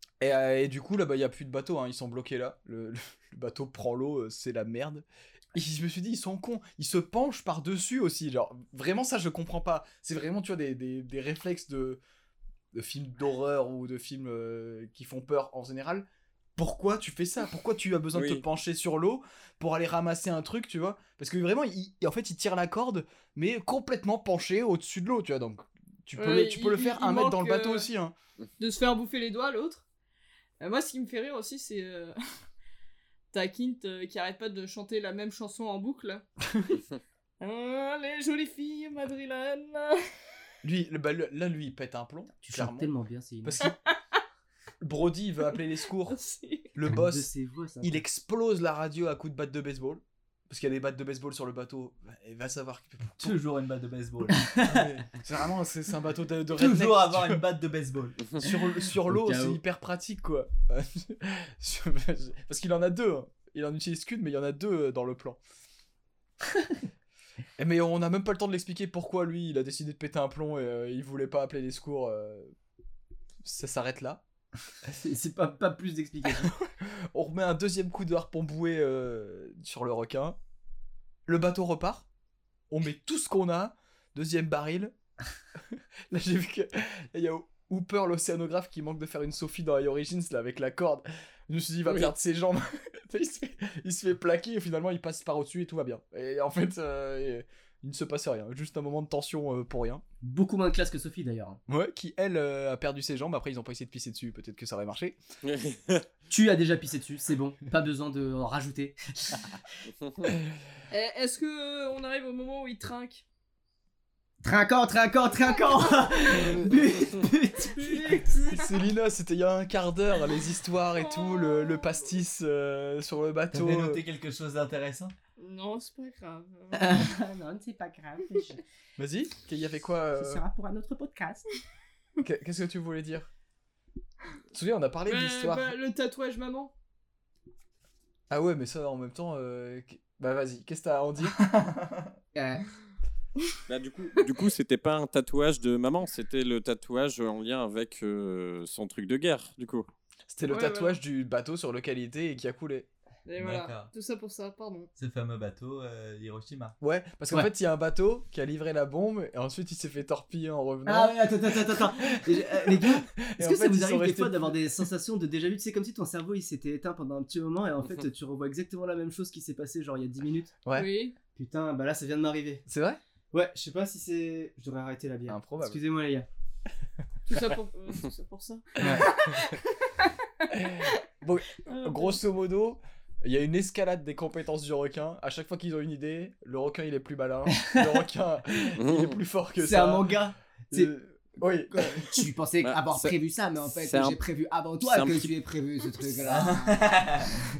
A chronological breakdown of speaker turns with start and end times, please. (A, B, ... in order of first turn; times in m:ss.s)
0:00.2-0:12.0 A
0:12.7-0:28.1 A
0:18.1-0:18.4 B
0:26.2-0:27.9 C
0:28.6-0:29.8 C
0:30.6-0:32.1 C
0:33.3-0:36.2 C
0:37.4-0:40.1 C
0:40.6-0:42.9 A
0:42.4-0:43.5 D
0:43.4-0:43.8 A
0:43.6-0:44.2 C
0:44.8-0:46.2 A
0:46.1-0:46.7 C
0:46.7-0:47.3 A
0:46.8-0:48.0 D
0:47.8-0:53.4 A
0:53.2-0:54.6 E
0:54.4-0:54.8 D
0:54.6-0:57.4 A
0:56.5-0:58.2 E
0:58.4-1:05.4 A
0:59.0-0:59.6 D
1:07.6-1:12.5 A
1:13.4-1:14.2 A
1:15.0-1:16.5 D
1:16.4-1:20.4 A
1:21.2-1:22.1 A
1:22.7-1:24.9 A
1:25.7-1:40.0 A
1:40.2-1:41.6 D
1:41.7-1:45.2 A
1:45.4-1:46.0 B
1:46.3-1:49.4 D
1:50.9-1:53.2 C
1:54.4-1:58.3 D
1:56.3-1:56.8 A
1:57.6-1:58.8 C
1:58.4-2:04.0 A
2:01.0-2:02.0 C
2:03.5-2:05.1 E
2:05.4-2:07.1 C
2:06.7-2:08.6 D
2:09.0-2:10.4 A
2:10.2-2:11.5 D
2:12.2-2:13.3 A
2:14.5-2:15.7 A
2:15.1-2:16.7 C
2:18.3-2:21.4 A
2:21.2-2:22.1 E
2:22.3-2:22.6 D
2:23.7-2:29.8 B
2:30.3-2:32.9 A
2:30.5-2:31.0 C
2:33.2-2:34.9 C
2:33.4-2:33.9 E
2:35.0-2:36.8 E
2:36.8-2:44.8 A
2:40.8-2:50.5 D
2:50.6-2:50.9 A
2:50.7-2:51.1 C
2:51.3-2:52.6 D
2:52.7-2:53.0 A
2:53.3-2:56.3 D
2:55.3-2:55.8 A
2:57.3-3:00.1 C
2:58.8-2:59.4 A
3:00.5-3:10.2 A
3:01.6-3:02.2 C
3:08.8-3:09.2 B
3:09.6-3:10.9 D
3:10.7-3:12.2 A
3:11.7-3:17.0 D
3:12.6-3:13.2 B
3:13.8-3:14.2 B
3:14.8-3:15.3 B
3:16.2-3:17.4 E